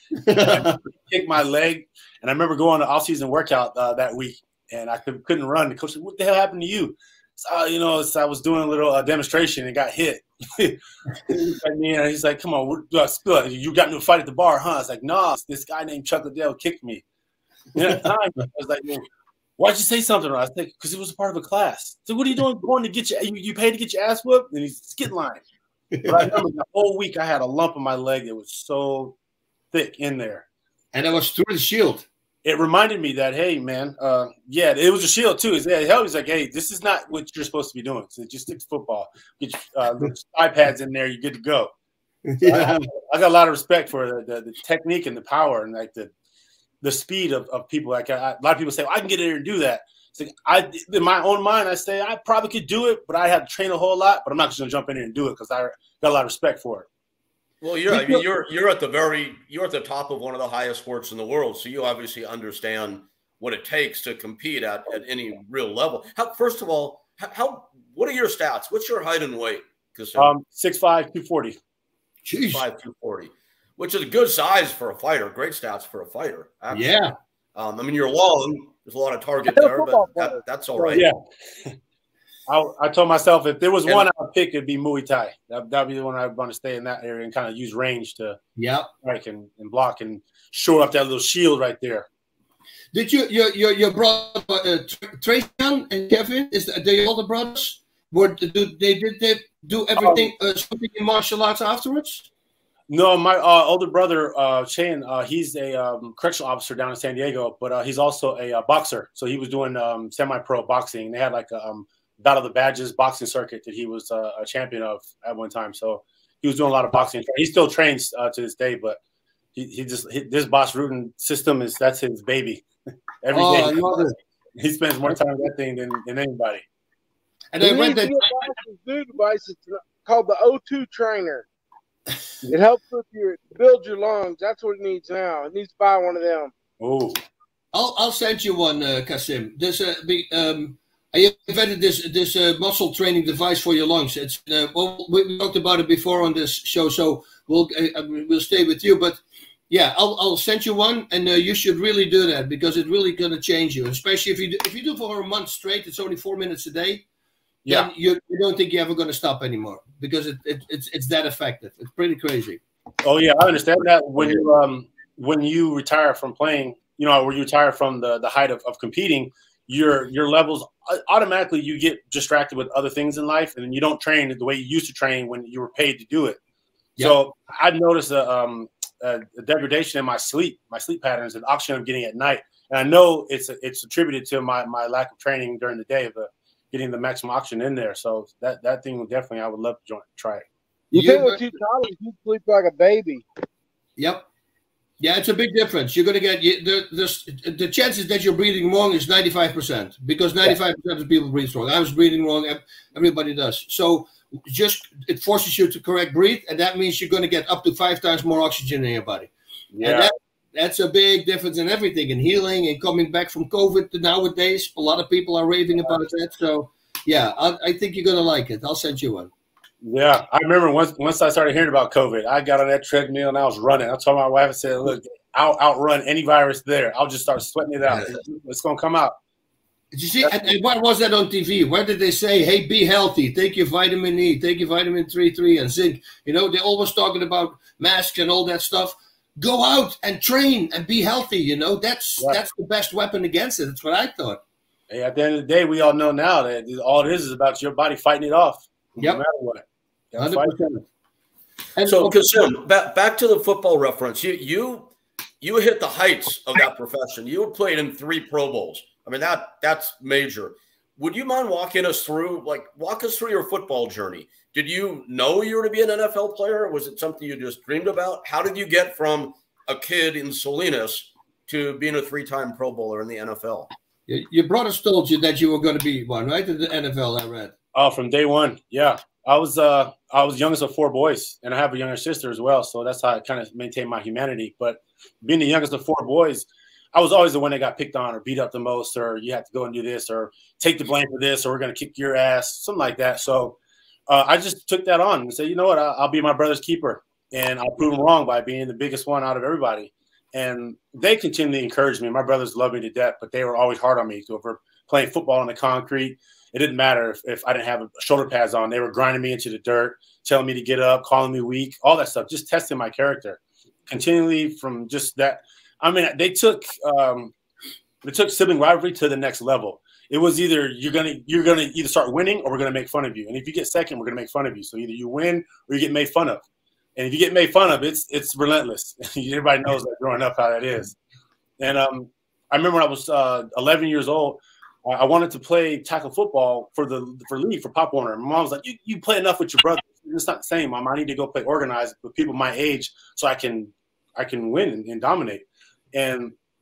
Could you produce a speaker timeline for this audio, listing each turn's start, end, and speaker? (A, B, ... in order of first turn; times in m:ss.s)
0:00.2-0:00.8 A
0:00.4-0:17.0 B
0:17.7-0:19.0 B
0:19.6-0:25.4 B
0:25.9-0:26.4 A
0:26.0-0:29.2 B
0:29.7-0:30.4 B
0:30.9-0:32.0 A
0:32.4-0:41.7 B
0:42.2-0:42.9 A
0:42.4-0:46.1 B
0:46.8-0:56.9 B
0:57.6-1:10.3 C
1:10.2-1:11.6 B
1:12.2-1:12.6 A
1:12.5-1:17.0 C
1:16.7-1:17.1 A
1:17.5-1:21.1 C
1:19.5-1:20.4 D
1:20.7-1:21.7 B
1:22.5-1:28.4 B
1:28.6-1:28.9 A
1:29.0-1:32.0 B
1:32.9-1:42.3 A
1:40.0-1:40.3 B
1:42.9-1:59.0 B
1:59.5-2:02.6 B
2:03.2-2:06.6 B
2:03.3-2:04.1 A
2:07.5-2:08.2 A
2:07.6-2:11.4 D
2:12.5-2:16.5 D
2:16.8-2:17.2 B
2:17.7-2:37.0 A
2:37.6-2:37.9 B
2:37.7-2:42.6 A
2:43.0-2:56.4 B
2:57.0-3:10.4 B
3:10.9-3:11.5 A
3:10.9-3:13.2 D
3:14.0-3:14.2 A
3:15.0-3:29.3 A
3:29.7-3:30.1 B
3:29.8-3:39.3 A
3:39.8-3:49.2 B
3:47.9-3:48.2 C
3:49.9-4:04.4 A
3:50.2-3:50.5 B
4:04.9-4:10.6 B
4:09.0-4:09.2 A
4:10.2-4:10.8 A
4:11.8-4:12.4 A
4:11.8-4:33.7 C
4:34.1-4:37.5 A
4:37.7-4:53.6 B
4:54.1-5:17.3 B
5:18.0-5:26.4 B
5:27.0-5:31.0 B
5:31.6-5:46.3 B